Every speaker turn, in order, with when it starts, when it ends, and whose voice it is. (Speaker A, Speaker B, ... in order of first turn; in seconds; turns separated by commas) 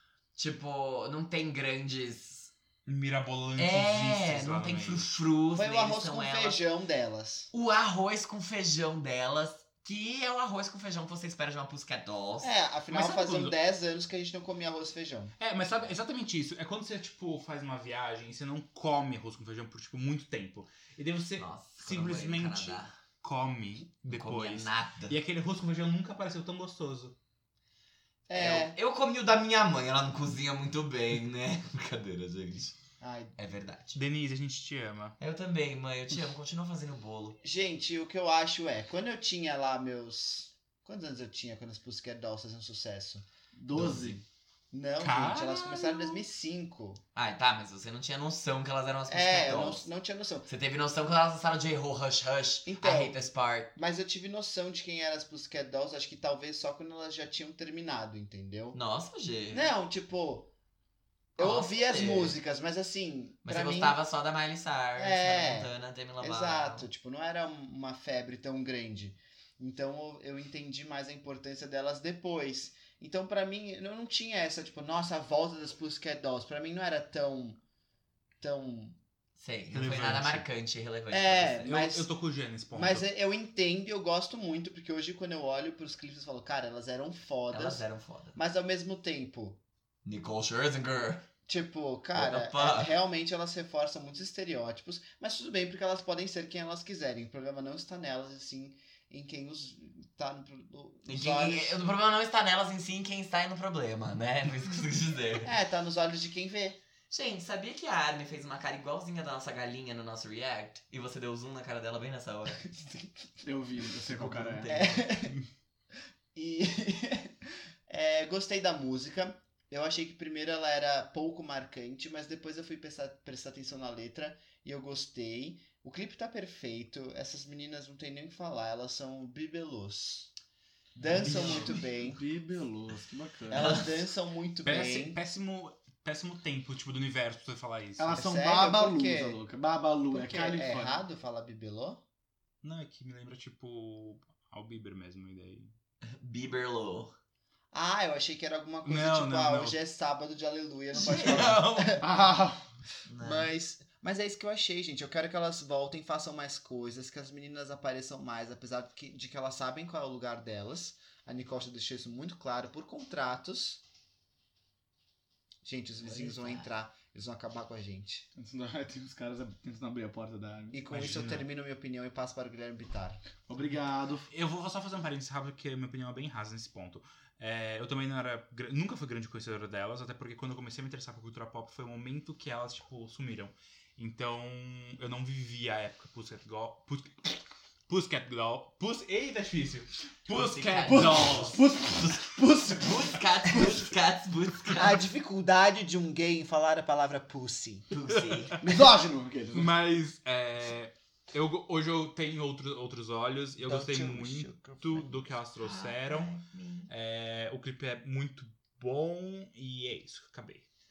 Speaker A: 0.3-2.5, Speaker B: 2.9-5.1, Speaker A: 3.6-6.6, Speaker C: 5.5-7.5, Speaker A: 7.5-12.5, Speaker C: 12.4-15.3, Speaker B: 12.9-13.6, Speaker B: 15.4-27.1, Speaker A: 21.4-22.9, Speaker A: 24.1-25.1, Speaker C: 28.3-28.8, Speaker A: 28.3-32.7, Speaker C: 33.0-33.3, Speaker A: 33.4-34.0, Speaker B: 33.9-35.2, Speaker A: 35.2-37.4, Speaker C: 37.4-43.2, Speaker D: 43.5-44.2, Speaker C: 44.7-47.0, Speaker B: 45.0-46.2, Speaker A: 47.1-49.9, Speaker C: 49.1-50.5, Speaker A: 50.5-53.7, Speaker C: 52.6-53.2, Speaker C: 53.8-58.8, Speaker A: 58.7-59.7, Speaker C: 59.5-60.5, Speaker C: 61.4-64.0, Speaker A: 61.4-62.4, Speaker A: 63.4-66.9, Speaker C: 65.0-77.6, Speaker C: 78.4-79.0, Speaker A: 79.4-81.7, Speaker B: 79.7-80.5, Speaker C: 81.1-82.1, Speaker B: 81.6-83.0, Speaker C: 82.7-89.6, Speaker A: 87.5-88.4, Speaker A: 90.0-91.3, Speaker C: 91.5-101.9, Speaker A: 92.1-93.0, Speaker A: 101.0-105.5, Speaker C: 105.4-106.8, Speaker A: 107.1-112.7, Speaker D: 113.4-114.7, Speaker A: 114.1-115.1, Speaker C: 114.7-115.3, Speaker C: 116.3-117.3, Speaker C: 117.9-130.3, Speaker C: 131.0-132.2, Speaker D: 131.0-133.8, Speaker A: 131.2-131.8, Speaker C: 133.5-135.2, Speaker A: 133.5-133.9, Speaker B: 134.6-138.2, Speaker C: 138.0-139.4, Speaker D: 138.1-141.0, Speaker C: 140.1-142.0, Speaker B: 142.6-145.7, Speaker A: 146.0-147.1, Speaker C: 147.7-152.1, Speaker B: 148.8-149.8, Speaker A: 150.9-151.8, Speaker B: 151.1-151.7, Speaker D: 152.0-152.6, Speaker A: 153.1-153.5, Speaker C: 153.2-163.8, Speaker C: 165.6-168.3, Speaker D: 168.3-170.8, Speaker C: 170.7-173.2, Speaker B: 170.9-171.4, Speaker D: 173.5-174.3, Speaker B: 174.3-191.5, Speaker A: 190.3-191.6, Speaker D: 190.9-193.7, Speaker A: 192.7-195.0, Speaker C: 194.7-197.9, Speaker A: 197.9-198.6, Speaker D: 198.7-199.7, Speaker B: 199.5-206.3, Speaker C: 203.6-205.3, Speaker A: 205.6-206.9, Speaker B: 206.9-210.7